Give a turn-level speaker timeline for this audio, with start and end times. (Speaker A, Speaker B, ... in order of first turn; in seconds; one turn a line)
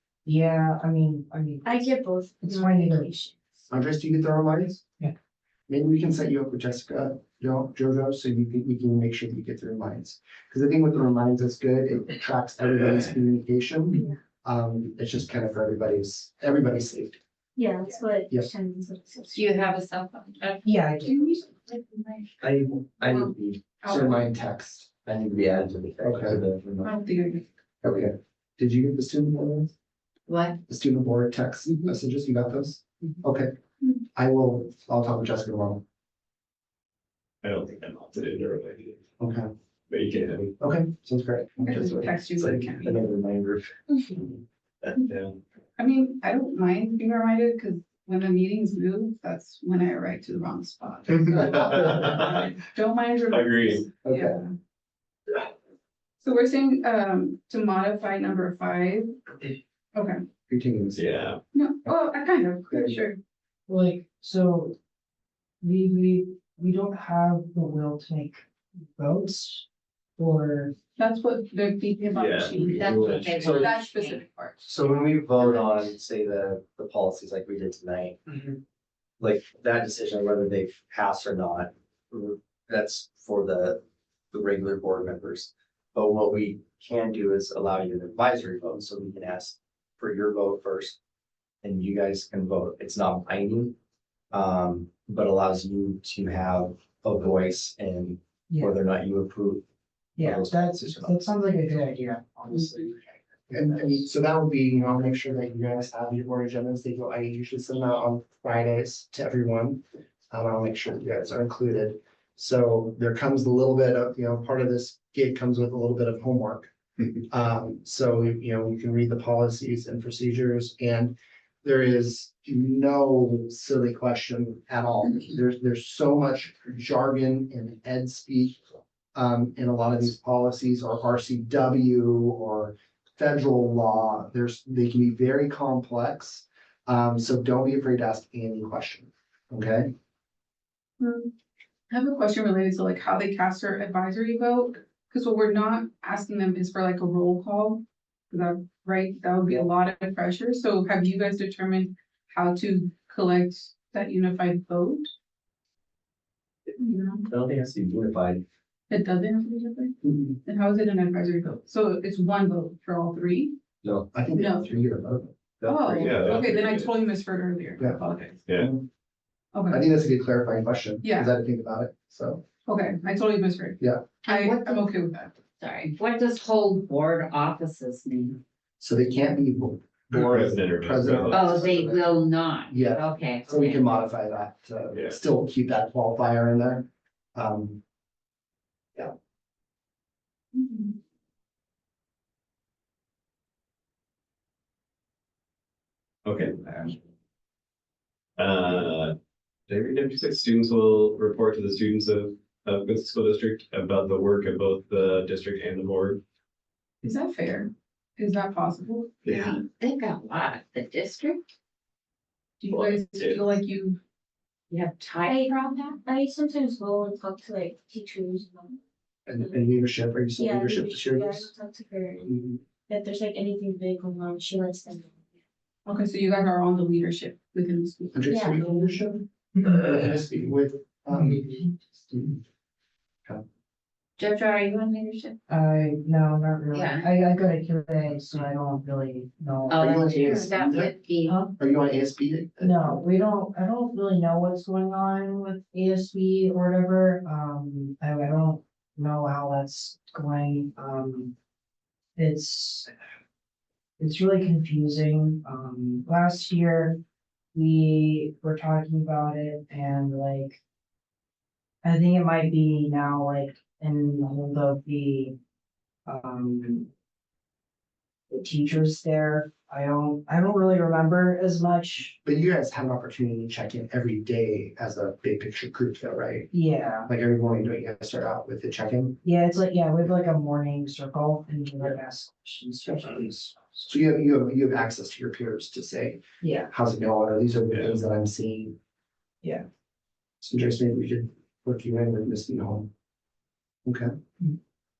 Speaker A: 0.2-3.1
Speaker B: 1.6-3.5
Speaker C: 3.7-4.8
Speaker C: 5.7-17.2
Speaker B: 13.9-14.2
Speaker B: 17.6-19.7
Speaker D: 19.3-21.1
Speaker A: 20.6-21.5
Speaker E: 22.4-23.9
Speaker F: 23.8-24.2
Speaker C: 23.8-24.9
Speaker E: 25.0-26.9
Speaker C: 26.0-26.4
Speaker F: 26.8-27.4
Speaker C: 27.8-29.7
Speaker D: 30.3-30.6
Speaker C: 30.7-33.5
Speaker C: 34.1-35.8
Speaker G: 37.4-39.0
Speaker C: 39.2-39.5
Speaker G: 39.9-40.5
Speaker C: 40.6-42.1
Speaker F: 41.6-43.0
Speaker E: 42.3-44.4
Speaker G: 44.9-45.4
Speaker F: 45.8-54.5
Speaker G: 51.3-52.4
Speaker G: 53.3-53.9
Speaker F: 56.2-59.3
Speaker F: 59.9-60.2
Speaker C: 60.5-61.3
Speaker G: 60.9-61.4
Speaker F: 61.5-63.2
Speaker C: 62.7-63.0
Speaker A: 63.7-64.8
Speaker A: 65.6-68.5
Speaker A: 69.0-69.6
Speaker A: 70.2-70.7
Speaker F: 71.0-74.7
Speaker G: 72.2-73.5
Speaker D: 72.7-74.2
Speaker E: 73.4-73.7
Speaker E: 74.6-78.2
Speaker E: 79.2-83.8
Speaker E: 84.3-91.0
Speaker E: 91.6-93.7
Speaker E: 94.3-99.6
Speaker A: 98.5-98.8
Speaker A: 100.2-104.0
Speaker E: 100.2-101.2
Speaker C: 103.5-116.7
Speaker C: 117.3-128.6
Speaker C: 129.1-139.9
Speaker F: 141.0-141.3
Speaker F: 141.9-155.1
Speaker F: 156.8-157.2
Speaker E: 157.2-158.4
Speaker F: 158.9-163.6
Speaker C: 160.0-160.4
Speaker E: 163.8-164.1
Speaker C: 164.1-165.3
Speaker F: 164.3-164.7
Speaker E: 165.6-166.4
Speaker F: 165.6-168.4
Speaker G: 166.0-166.9
Speaker C: 168.6-168.8
Speaker F: 169.5-169.8
Speaker C: 169.7-172.4
Speaker F: 171.0-171.3
Speaker F: 172.7-175.3
Speaker C: 173.8-174.1
Speaker D: 174.2-174.9
Speaker D: 175.6-178.4
Speaker C: 178.8-182.0
Speaker G: 180.1-181.8
Speaker D: 181.3-183.8
Speaker C: 182.7-187.8
Speaker G: 184.9-185.2
Speaker G: 196.2-196.9
Speaker G: 198.4-199.1
Speaker G: 199.7-206.2
Speaker F: 207.0-209.2
Speaker G: 209.2-209.6
Speaker D: 209.3-211.4
Speaker F: 212.6-214.0
Speaker G: 212.7-213.4
Speaker D: 214.7-215.9
Speaker B: 215.2-218.8
Speaker C: 219.3-221.5
Speaker B: 220.3-225.1
Speaker C: 222.2-222.6
Speaker F: 225.8-228.4
Speaker C: 228.1-232.4
Speaker B: 228.3-228.7
Speaker D: 234.2-235.4
Speaker A: 235.5-240.6
Speaker D: 236.7-237.1
Speaker D: 239.7-241.4
Speaker C: 239.8-240.9
Speaker A: 241.2-241.5
Speaker C: 241.5-243.0
Speaker A: 242.6-251.3
Speaker A: 252.2-252.9
Speaker A: 254.0-257.0
Speaker A: 257.5-260.6
Speaker A: 261.8-265.4
Speaker A: 266.1-266.9
Speaker A: 268.3-272.2
Speaker C: 272.2-276.5
Speaker A: 276.5-277.1
Speaker C: 277.1-279.2
Speaker A: 279.2-283.9
Speaker C: 282.9-283.1
Speaker C: 283.9-288.8
Speaker A: 286.4-286.7
Speaker G: 287.7-288.0
Speaker C: 290.4-292.9
Speaker C: 293.8-294.1